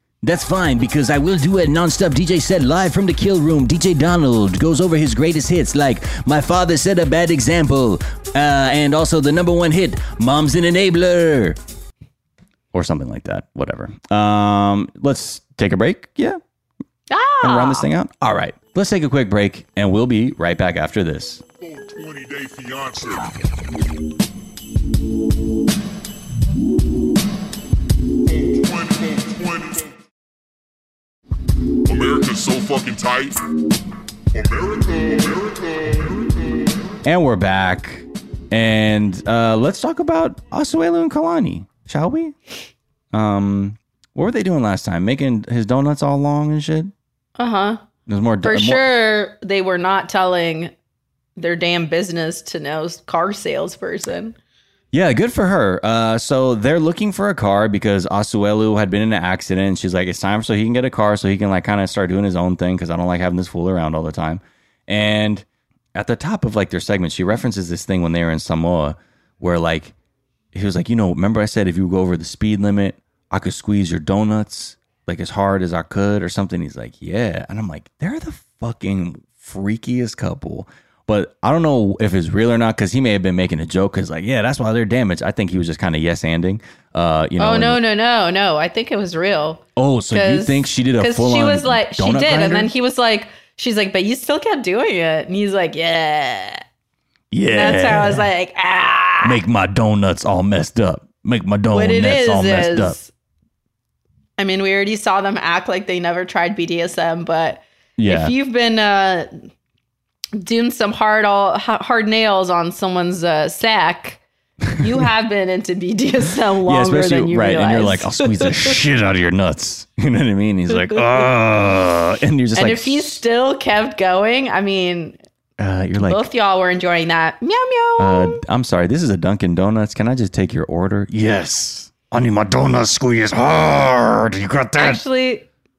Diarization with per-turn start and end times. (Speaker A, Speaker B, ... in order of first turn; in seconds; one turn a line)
Speaker A: 0.2-11.6
Speaker A: 12.7-16.4
Speaker B: 17.1-17.9
Speaker A: 17.4-21.4
Speaker C: 21.6-23.4
Speaker C: 28.3-29.9
Speaker C: 31.9-33.4
Speaker C: 34.3-36.6
Speaker A: 37.0-42.4
Speaker A: 43.1-46.9
Speaker B: 47.4-47.8
Speaker A: 48.1-48.9
Speaker B: 48.4-50.7
Speaker B: 51.4-54.4
Speaker A: 54.9-69.9
Speaker A: 70.5-87.8
Speaker B: 87.4-96.6
Speaker A: 89.8-92.7
Speaker A: 97.3-98.3
Speaker B: 97.5-99.4
Speaker A: 99.2-103.0
Speaker B: 101.7-103.1
Speaker B: 104.4-109.5
Speaker A: 108.0-108.3
Speaker B: 110.4-114.2
Speaker B: 114.8-118.7
Speaker A: 116.7-123.2
Speaker B: 122.5-125.2
Speaker A: 125.6-126.3
Speaker B: 126.0-128.4
Speaker A: 128.0-135.0
Speaker B: 134.8-135.5